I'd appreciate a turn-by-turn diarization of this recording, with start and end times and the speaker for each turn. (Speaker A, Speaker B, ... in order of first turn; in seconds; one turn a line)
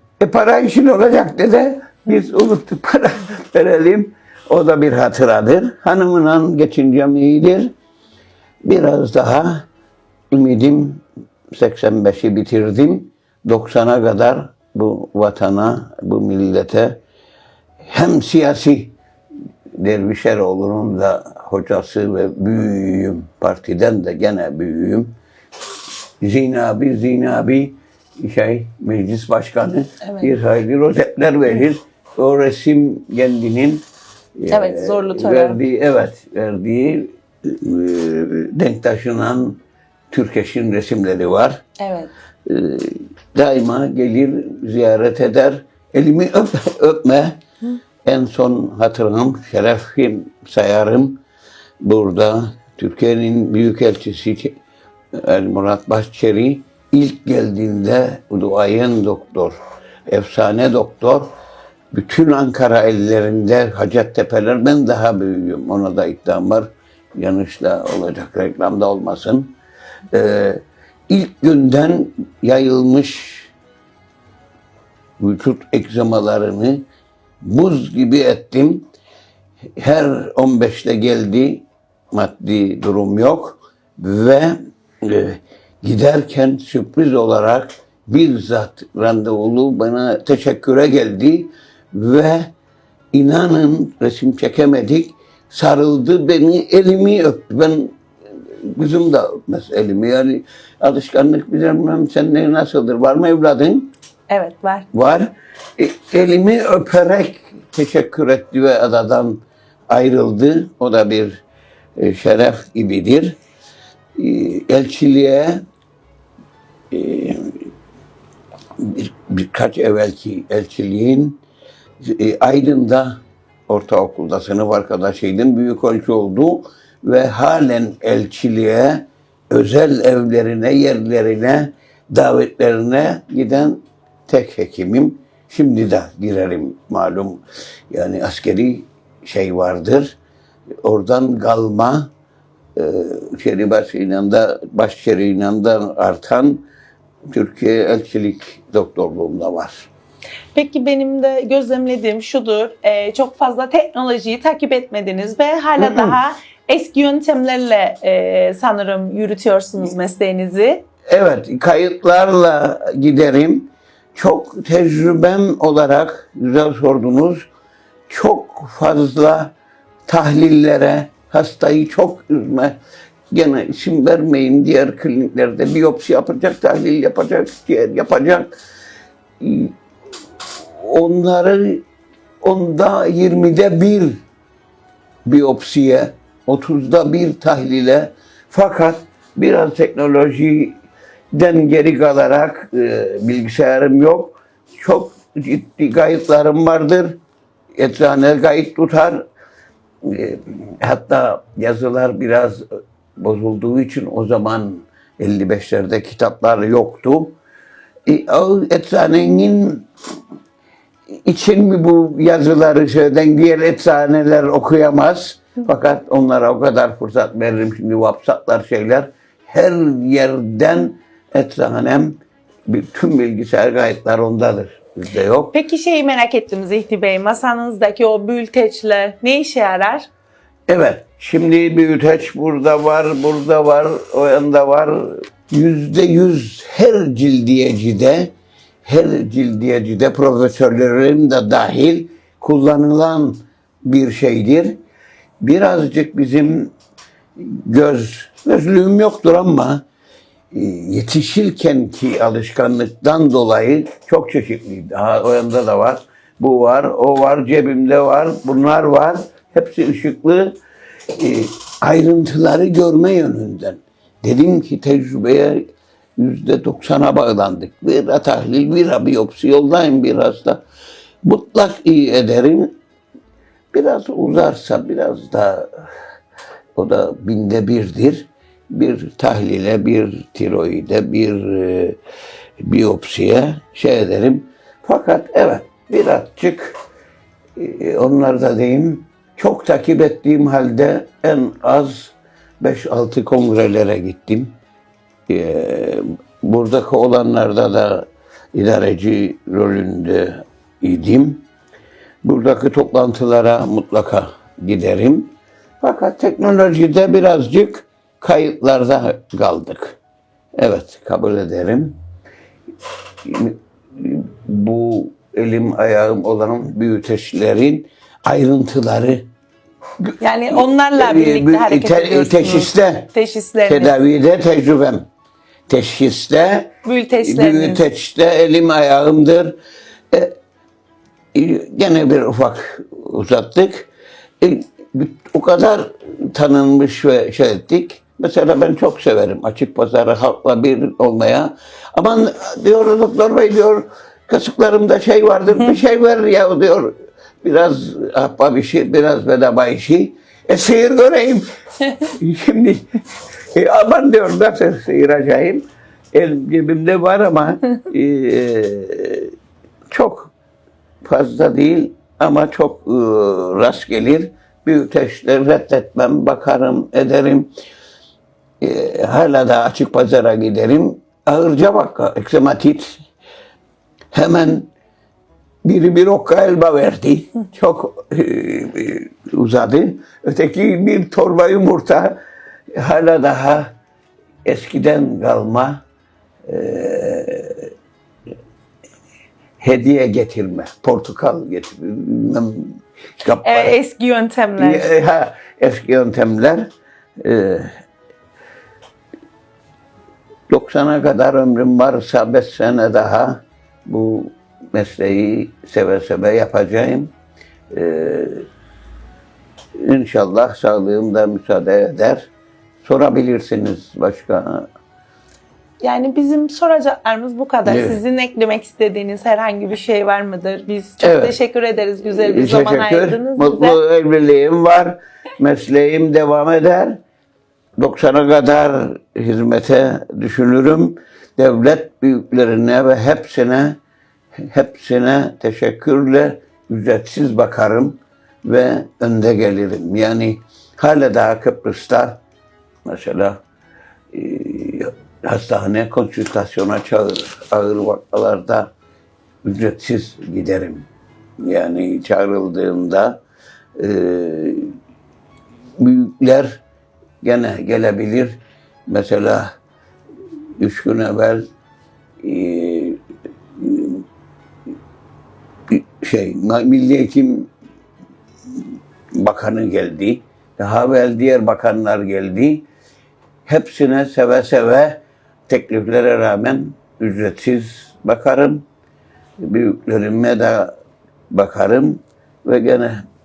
Speaker A: 0.2-7.7
Speaker A: 8.6-9.7
Speaker A: 10.3-17.0
Speaker A: 17.8-18.9
Speaker A: 19.8-25.1
Speaker A: 26.2-33.8
Speaker B: 30.0-30.3
Speaker A: 34.4-39.6
Speaker B: 34.5-35.6
Speaker A: 40.1-41.6
Speaker B: 41.8-42.1
Speaker A: 42.5-47.4
Speaker A: 48.0-51.2
Speaker A: 51.8-54.6
Speaker A: 55.1-61.3
Speaker A: 61.9-69.5
Speaker A: 70.1-73.5
Speaker A: 75.2-76.8
Speaker A: 77.4-78.9
Speaker A: 79.8-92.5
Speaker A: 93.1-98.0
Speaker A: 98.6-103.9
Speaker B: 104.3-104.9
Speaker A: 104.9-111.4
Speaker A: 112.0-113.4
Speaker A: 114.2-115.6
Speaker A: 116.9-117.7
Speaker A: 118.8-121.4
Speaker A: 122.0-140.2
Speaker A: 140.8-142.1
Speaker A: 142.8-146.7
Speaker A: 147.3-149.9
Speaker B: 150.5-160.8
Speaker A: 155.8-156.2
Speaker A: 161.1-167.5
Speaker A: 168.1-169.5
Speaker A: 170.1-172.8
Speaker A: 173.3-178.5
Speaker A: 179.4-179.8
Speaker A: 180.8-181.8
Speaker A: 182.4-184.2
Speaker A: 185.3-190.8
Speaker A: 191.3-197.2
Speaker A: 197.8-199.2
Speaker A: 200.0-202.7
Speaker A: 203.2-207.4
Speaker A: 208.1-209.9
Speaker A: 211.2-225.6
Speaker B: 225.5-230.1
Speaker A: 230.7-244.8
Speaker A: 245.4-246.7
Speaker A: 247.4-249.8
Speaker A: 250.5-260.6
Speaker A: 261.1-265.6
Speaker A: 266.2-270.6
Speaker A: 271.2-272.8
Speaker A: 273.7-275.7
Speaker A: 276.8-282.0
Speaker A: 282.6-286.8
Speaker A: 287.6-294.6
Speaker A: 295.3-301.4
Speaker A: 302.2-310.0
Speaker A: 310.6-312.0
Speaker A: 313.2-319.3
Speaker A: 320.0-323.1
Speaker B: 320.2-324.0
Speaker A: 323.6-325.1
Speaker A: 325.7-329.6
Speaker B: 326.9-327.9
Speaker A: 331.3-333.9
Speaker A: 334.4-352.9
Speaker A: 353.5-359.3
Speaker A: 359.9-360.3
Speaker A: 361.0-367.5
Speaker A: 368.6-373.0
Speaker A: 374.1-374.7
Speaker A: 375.6-382.2
Speaker A: 382.7-383.7
Speaker A: 384.4-385.8
Speaker A: 386.5-387.7
Speaker A: 389.6-393.8
Speaker B: 393.4-394.9
Speaker A: 394.6-397.7
Speaker A: 400.5-407.1
Speaker A: 407.7-408.5
Speaker A: 409.8-412.3
Speaker A: 412.8-414.7
Speaker B: 415.8-423.8
Speaker A: 417.6-418.0
Speaker A: 421.0-421.4
Speaker A: 422.1-427.0
Speaker A: 427.8-433.8
Speaker A: 434.5-442.2
Speaker A: 442.9-443.4
Speaker A: 444.1-448.7
Speaker A: 449.4-450.9
Speaker A: 451.4-453.2
Speaker A: 453.8-454.7
Speaker A: 455.8-456.6
Speaker A: 457.2-459.5
Speaker A: 460.6-461.5
Speaker A: 462.2-463.0
Speaker A: 463.6-464.0
Speaker A: 465.7-467.5
Speaker A: 469.1-472.7
Speaker A: 473.5-478.6
Speaker A: 479.4-480.7
Speaker A: 481.3-483.0